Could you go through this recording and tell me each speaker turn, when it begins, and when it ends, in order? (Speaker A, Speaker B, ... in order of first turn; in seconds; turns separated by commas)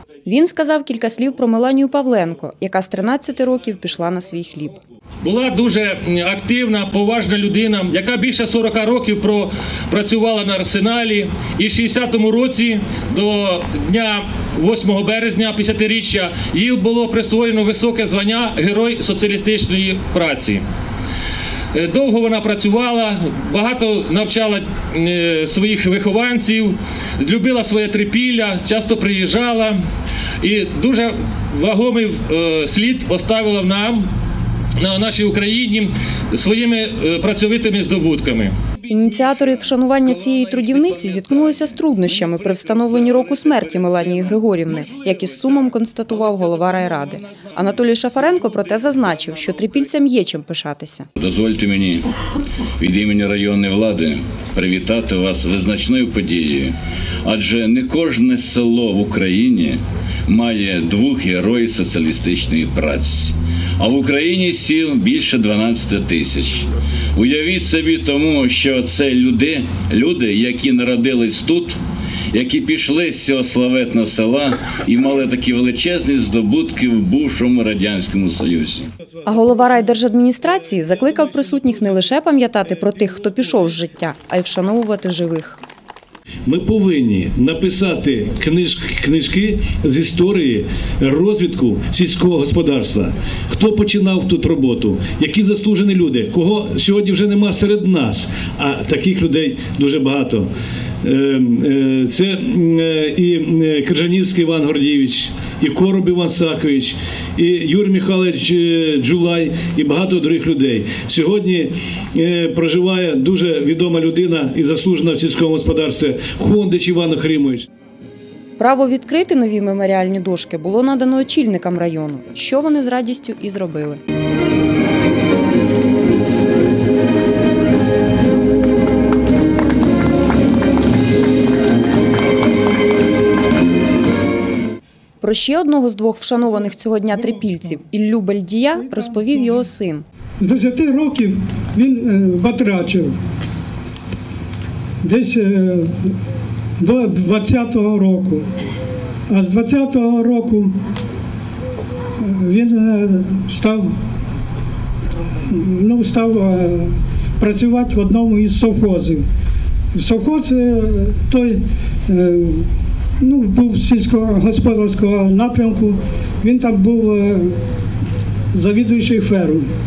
Speaker A: 0.2-4.8, Speaker B: 5.2-20.6, Speaker B: 21.7-29.8, Speaker B: 30.4-34.1, Speaker B: 34.8-38.5, Speaker A: 38.9-51.1, Speaker C: 51.1-52.1, Speaker C: 52.8-71.8, Speaker C: 72.3-78.9, Speaker A: 79.2-85.6, Speaker D: 86.5-100.5, Speaker D: 101.0-117.7, Speaker A: 118.6-124.0, Speaker A: 135.2-140.0, Speaker E: 138.8-139.3, Speaker E: 140.4-143.2, Speaker E: 145.0-146.1, Speaker E: 146.8-148.5, Speaker E: 149.3-150.7, Speaker E: 152.2-153.9, Speaker E: 155.4-159.2, Speaker E: 159.9-162.7, Speaker E: 163.2-167.6, Speaker E: 168.5-169.7